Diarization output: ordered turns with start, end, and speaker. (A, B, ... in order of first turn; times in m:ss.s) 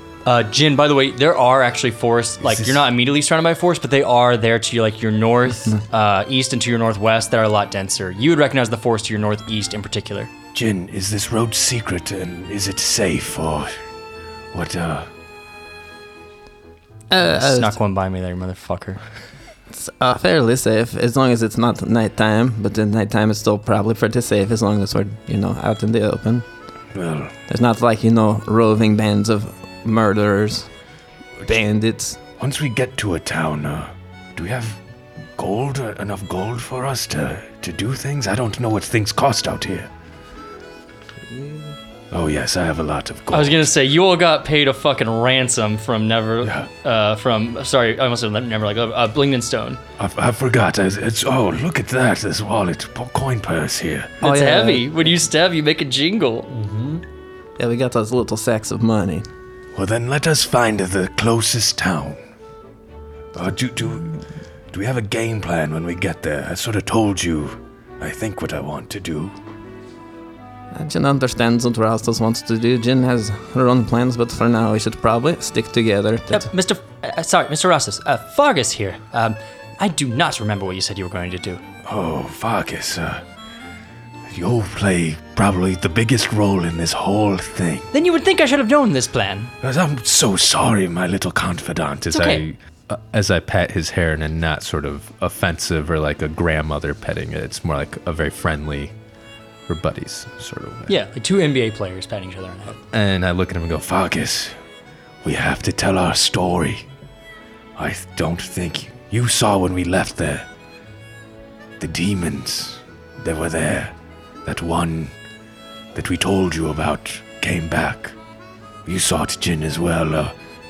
0:00.2-0:10.3 A
0:02.4-0:02.8 B
0:10.5-0:13.7 B
0:14.5-0:15.1 B
0:17.1-0:17.8 C
0:17.2-0:19.0 A
0:19.7-0:26.4 C
0:26.9-0:27.3 B
0:27.5-0:30.7 C
0:31.4-0:32.2 C
0:32.4-0:34.8 B
0:35.4-0:39.9 B
0:41.3-0:41.7 C
0:42.1-0:43.7 B
0:43.3-0:49.8 A
0:46.4-0:46.7 B
0:50.0-0:54.1 B
0:54.2-0:56.5 A
0:54.2-0:54.8 C
0:57.6-0:59.3 C
0:59.7-1:02.2 B
1:03.3-1:04.2 B
1:04.7-1:09.4 B
1:10.7-1:16.5 C
1:16.3-1:21.6 A
1:21.8-1:23.2 B
1:24.3-1:27.9 B
1:27.9-1:29.5 A
1:29.6-1:32.1 B
1:32.1-1:38.9 D
1:32.1-1:32.4 A
1:39.7-1:41.0 D
1:40.9-1:42.8 A
1:42.9-1:43.8 D
1:43.8-1:44.6 B
1:45.2-1:46.9 B
1:47.8-1:50.5 B
1:51.8-1:53.9 B
1:54.4-1:55.1 B
1:55.9-1:58.2 B
1:58.8-2:00.3 B